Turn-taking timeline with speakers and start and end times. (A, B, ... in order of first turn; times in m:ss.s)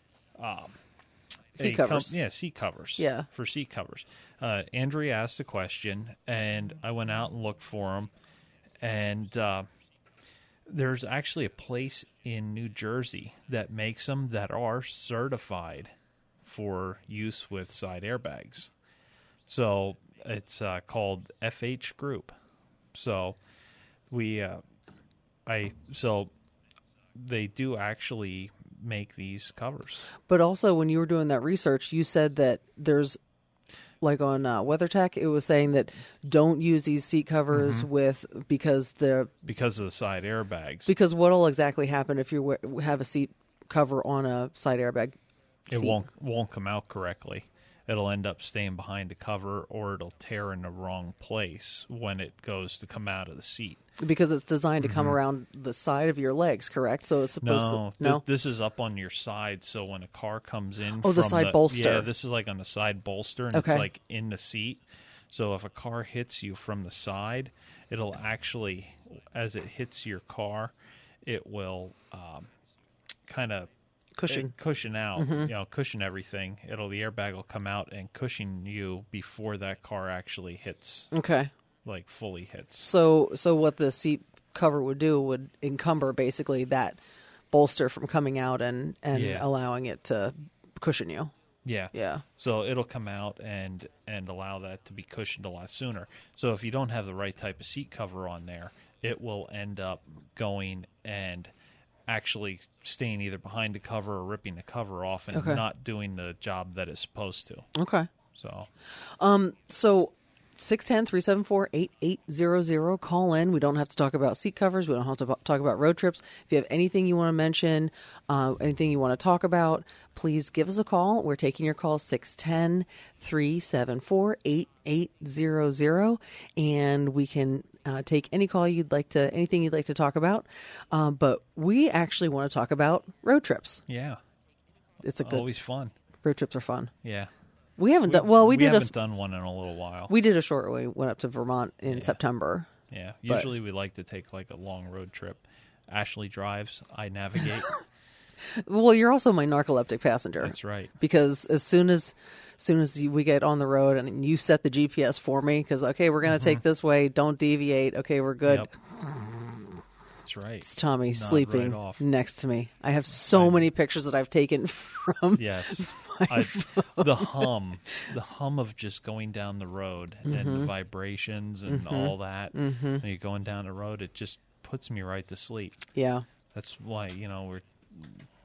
0:00.4-0:00.8 A
0:01.6-0:02.1 B
0:01.6-0:08.1 A
0:03.0-0:03.3 B
0:08.8-0:09.7 A
0:10.7-0:15.9 A
0:16.4-0:18.7 A
0:19.5-0:22.3 A
0:22.9-0:23.4 A
0:24.1-0:24.6 A
0:25.5-0:26.3 A
0:27.1-0:30.1 A
0:30.3-0:33.2 B
0:34.0-0:39.3 B
0:37.5-0:37.9 A
0:39.4-0:40.9 A
0:40.9-0:45.2 B
0:45.7-0:53.8 A
0:45.7-0:46.0 B
0:54.0-0:58.2 B
0:54.8-0:55.2 A
0:57.4-1:12.5 A
1:01.0-1:02.1 B
1:03.5-1:03.9 B
1:13.3-1:13.7 A
1:14.2-1:14.5 B
1:14.3-1:21.1 A
1:15.2-1:15.5 B
1:21.1-1:21.5 B
1:21.8-1:22.9 A
1:22.8-1:27.0 B
1:27.5-1:31.3 B
1:29.1-1:29.5 A
1:31.6-1:41.5 A
1:31.9-1:32.2 B
1:42.1-1:47.7 A
1:45.3-1:45.6 B
1:47.8-1:48.1 B
1:48.3-1:48.7 A
1:49.2-2:13.8 B
2:13.9-2:14.2 A
2:15.0-2:15.5 B
2:15.2-2:15.9 A
2:16.2-2:16.9 B
2:17.0-2:17.3 A
2:17.8-2:18.9 B
2:18.1-2:20.1 A
2:20.1-2:22.7 B
2:21.9-2:22.2 A
2:22.9-2:27.7 A
2:28.6-2:39.6 B
2:30.4-2:30.9 A
2:36.3-2:36.6 A
2:38.4-2:38.7 A
2:40.2-2:42.0 A
2:40.6-2:47.5 B
2:43.3-2:43.6 A
2:45.4-2:55.8 A
2:50.2-2:50.7 B
2:51.7-2:53.0 B
2:55.9-2:56.2 B
2:56.5-2:58.2 A